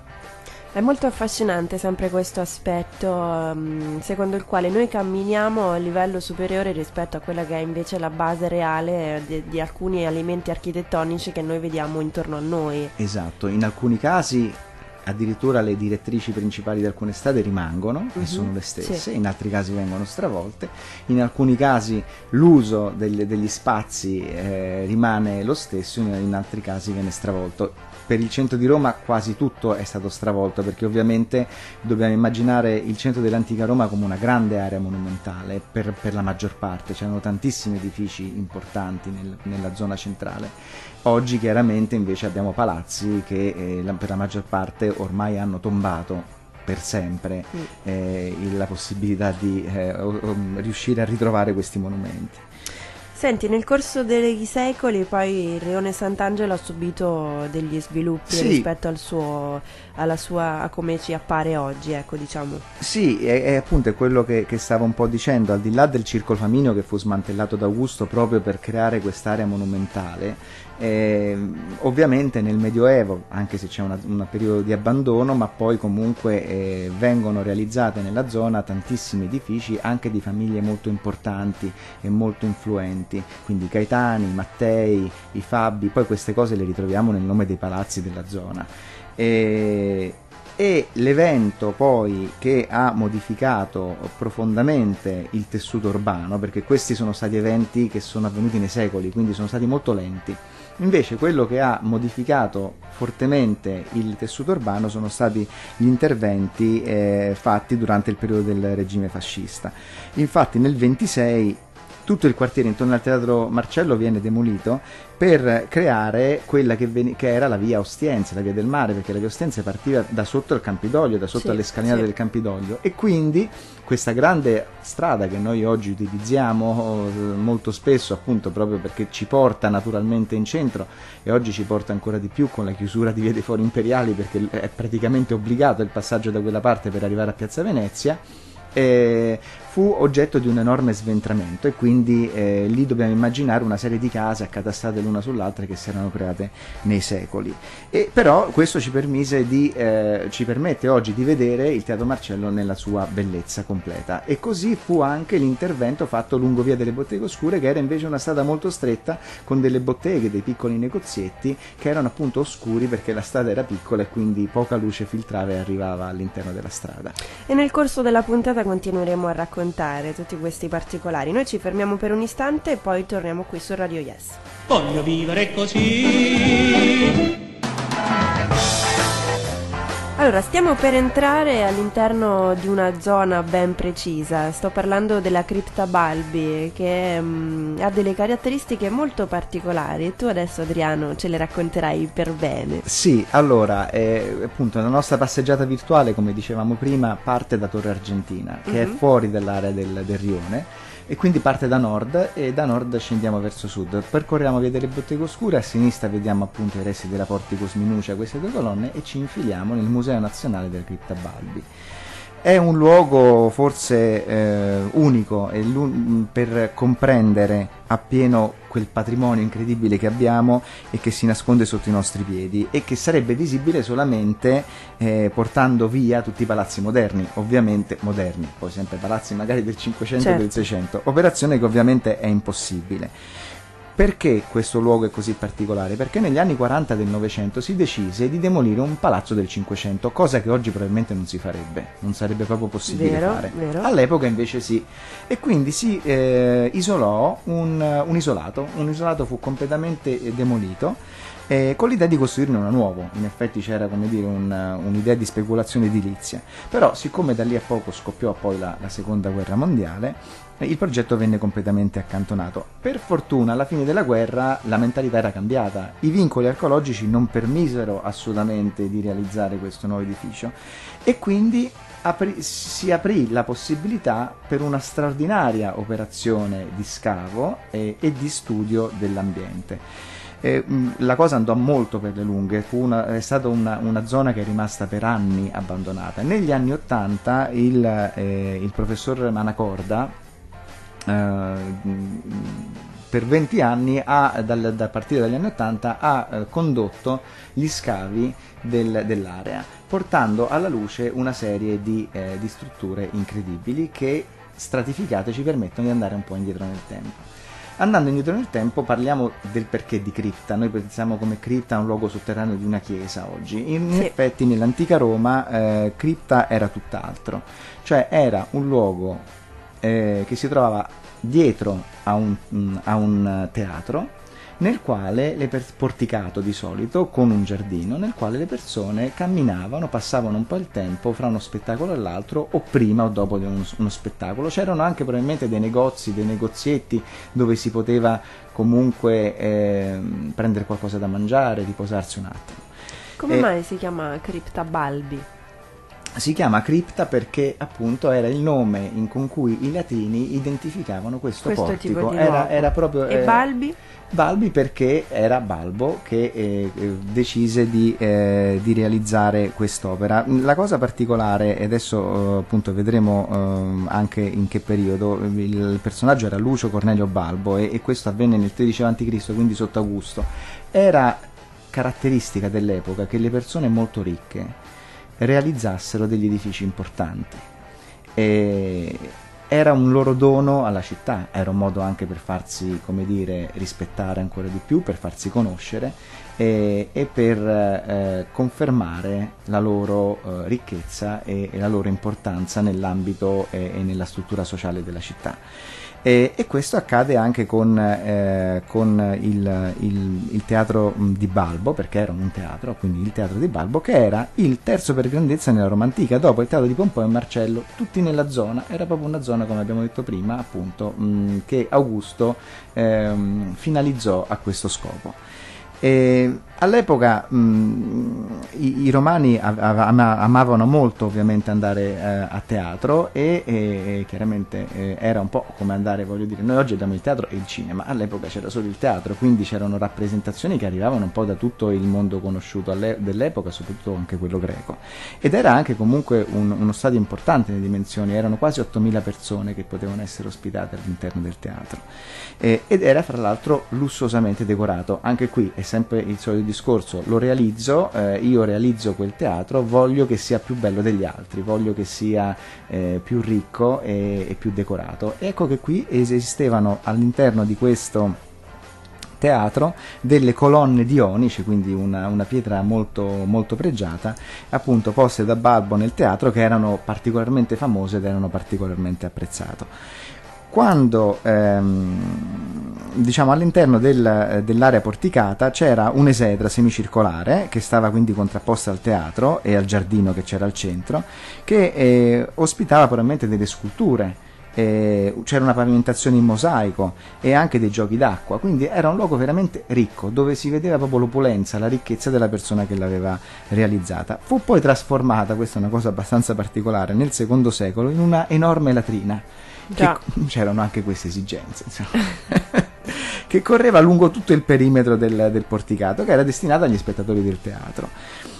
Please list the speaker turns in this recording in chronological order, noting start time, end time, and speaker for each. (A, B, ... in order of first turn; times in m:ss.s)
0:00.7-0:12.9 A
0:13.0-0:52.4 B
0:18.2-0:19.0 A
0:53.1-1:02.6 A
0:58.3-0:58.7 B
1:02.8-2:18.2 B
2:01.4-2:02.0 A
2:18.7-2:47.2 B
2:47.5-2:54.4 A
2:54.7-2:57.3 C
3:00.2-3:12.8 A
3:12.8-3:31.7 B
3:18.7-3:19.0 A
3:32.4-3:53.1 B
3:50.2-3:50.4 A
3:54.0-4:39.8 B
4:02.9-4:03.9 A
4:40.4-4:50.2 B
4:51.1-5:19.3 B
5:19.8-5:42.6 B
5:43.2-5:45.3 A
5:46.2-5:53.5 B
5:51.4-5:53.8 A
5:54.1-6:14.6 B
6:15.2-6:17.5 B
6:18.2-6:35.4 B
6:36.0-6:55.2 B
6:55.8-7:21.8 B
7:22.4-7:38.2 B
7:39.2-7:49.7 B
7:50.5-8:27.9 B
8:19.7-8:20.0 A